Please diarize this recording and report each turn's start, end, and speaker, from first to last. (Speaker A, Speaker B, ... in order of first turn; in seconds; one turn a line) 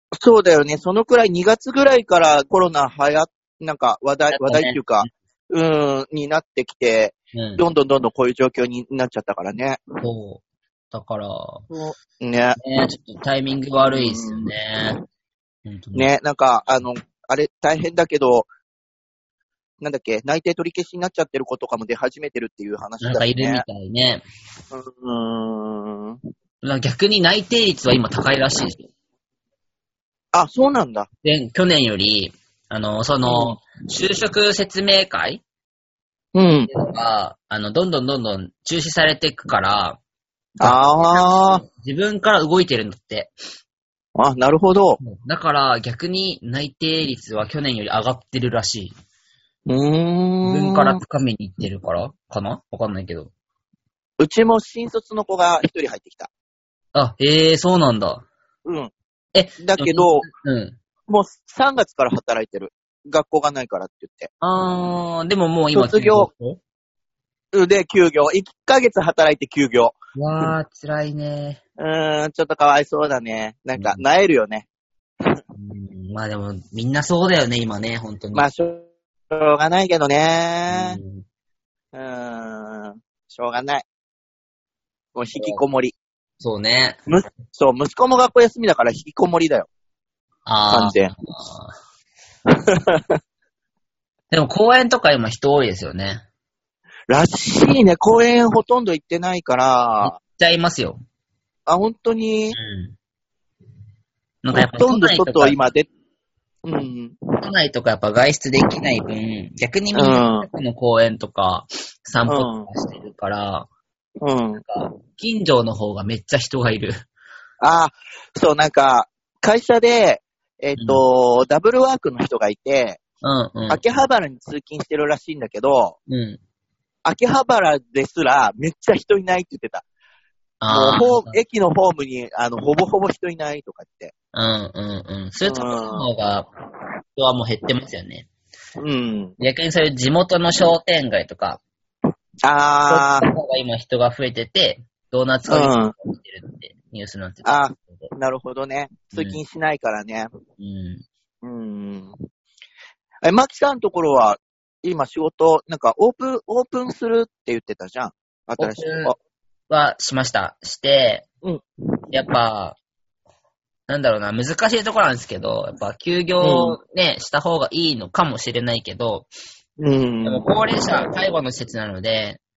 Speaker A: 0.2-9.8
Speaker B: 4.3-5.1
Speaker B: 7.3-7.6
Speaker B: 10.0-11.7
Speaker A: 11.7-12.6
Speaker B: 12.6-15.0
Speaker A: 13.8-14.5
Speaker B: 15.7-16.1
Speaker A: 15.9-18.5
Speaker A: 19.8-23.6
Speaker B: 23.0-24.2
Speaker A: 24.7-26.2
Speaker B: 26.6-28.8
Speaker A: 30.3-31.1
Speaker B: 31.2-35.4
Speaker A: 33.2-33.6
Speaker A: 36.3-36.7
Speaker B: 36.7-40.0
Speaker A: 40.6-41.6
Speaker B: 40.6-43.3
Speaker A: 44.2-45.0
Speaker B: 45.0-49.0
Speaker A: 49.7-51.0
Speaker B: 50.4-53.3
Speaker A: 54.2-56.3
Speaker B: 57.0-58.3
Speaker A: 58.6-58.9
Speaker B: 59.3-60.8
Speaker A: 59.6-60.3
Speaker A: 61.1-64.3
Speaker B: 64.4-66.6
Speaker A: 65.7-66.3
Speaker A: 67.5-70.0
Speaker B: 70.2-71.6
Speaker A: 71.8-74.7
Speaker B: 73.8-74.0
Speaker B: 75.5-78.5
Speaker A: 78.3-81.0
Speaker B: 80.7-81.2
Speaker A: 81.9-83.9
Speaker A: 85.2-86.0
Speaker B: 85.3-85.6
Speaker B: 86.4-87.0
Speaker A: 87.1-89.7
Speaker B: 90.5-91.8
Speaker A: 90.7-91.1
Speaker A: 92.7-93.2
Speaker B: 94.3-96.2
Speaker A: 97.1-100.1
Speaker B: 100.0-101.0
Speaker A: 101.7-102.6
Speaker B: 102.5-103.0
Speaker B: 104.4-105.6
Speaker A: 104.5-105.9
Speaker A: 106.7-107.2
Speaker B: 107.4-113.7
Speaker A: 110.0-110.5
Speaker A: 112.3-112.7
Speaker A: 114.2-114.6
Speaker B: 114.5-117.0
Speaker A: 117.6-123.0
Speaker B: 120.8-121.0
Speaker B: 123.2-123.8
Speaker A: 123.7-126.0
Speaker B: 126.1-126.4
Speaker A: 127.0-129.8
Speaker B: 130.6-131.4
Speaker A: 130.7-134.1
Speaker B: 134.3-136.5
Speaker A: 135.4-136.1
Speaker B: 137.2-138.3
Speaker A: 138.8-139.3
Speaker B: 139.4-141.6
Speaker A: 142.4-143.3
Speaker B: 142.9-148.1
Speaker A: 145.5-145.9
Speaker A: 147.4-150.3
Speaker B: 149.1-149.4
Speaker B: 150.6-151.0
Speaker A: 151.4-152.2
Speaker A: 153.2-159.2
Speaker B: 158.6-159.1
Speaker B: 159.7-161.3
Speaker B: 162.1-162.8
Speaker B: 163.9-169.3
Speaker A: 166.4-166.8
Speaker A: 169.8-170.4
Speaker B: 170.2-172.4